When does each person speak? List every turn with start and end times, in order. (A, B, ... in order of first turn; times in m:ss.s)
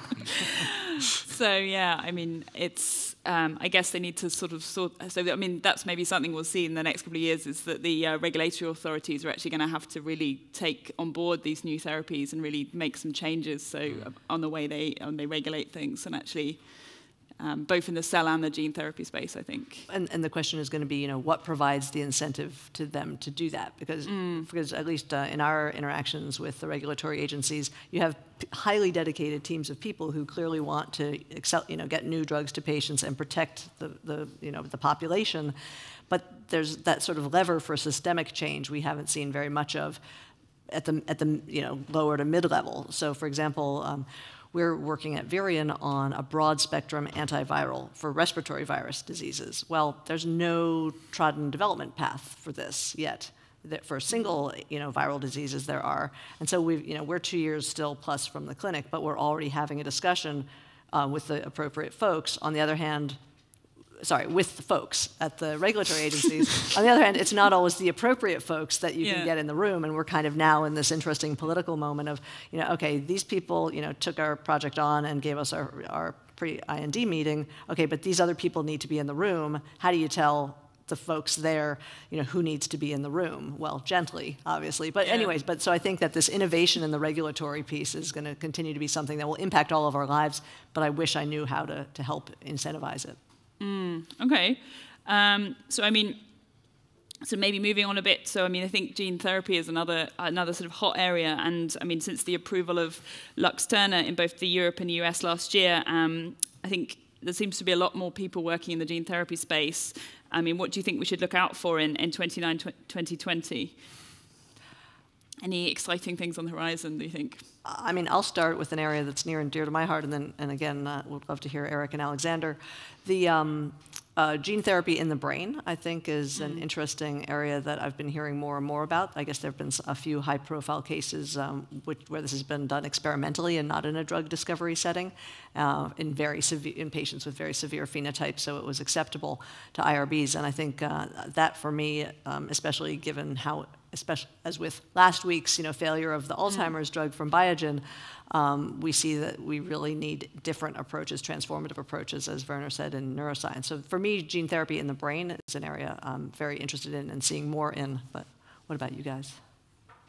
0:00.4-0:19.9 A
0:19.9-0:35.5 B
0:24.0-0:24.5 A
0:36.1-0:40.0 B
0:40.7-1:03.2 B
1:04.0-1:33.2 B
1:09.0-1:09.3 A
1:25.0-1:25.3 A
1:33.6-1:36.2 A
1:37.2-1:53.8 A
1:55.4-1:57.5 A
1:57.6-2:39.4 B
2:06.4-2:06.6 A